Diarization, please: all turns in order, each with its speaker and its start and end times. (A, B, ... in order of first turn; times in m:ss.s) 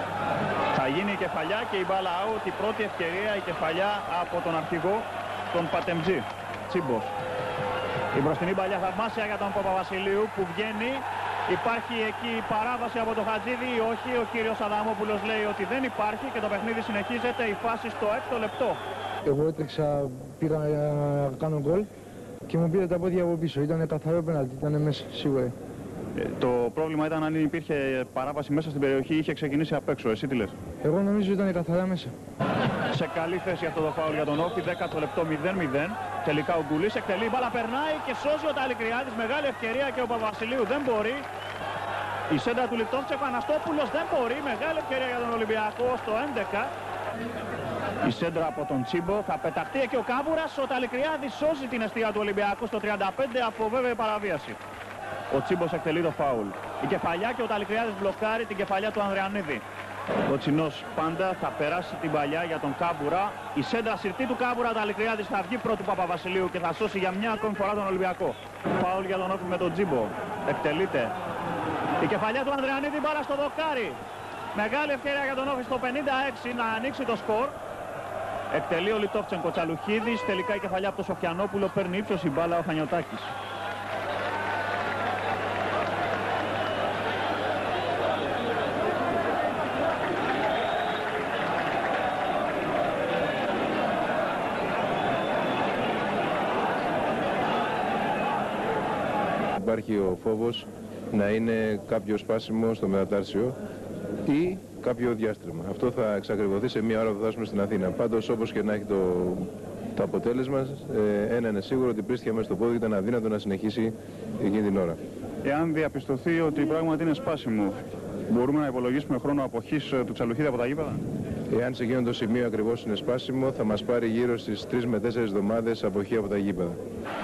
0:00.7-0:07.1 A
0:08.1-0:18.8 A
0:19.3-0:21.9 B
0:22.5-0:25.5 B
0:26.2-0:30.5 A
0:30.8-0:32.1 B
0:32.9-0:41.2 A
0:42.3-0:46.7 A
0:48.0-0:54.6 A
0:55.3-0:59.6 A
1:00.3-1:11.1 A
1:12.0-1:14.0 A
1:14.5-1:17.5 A
1:18.5-1:23.3 A
1:39.6-1:43.6 C
1:44.2-1:55.0 C
1:55.4-1:57.8 A
1:58.3-2:01.0 A
2:01.5-2:06.8 C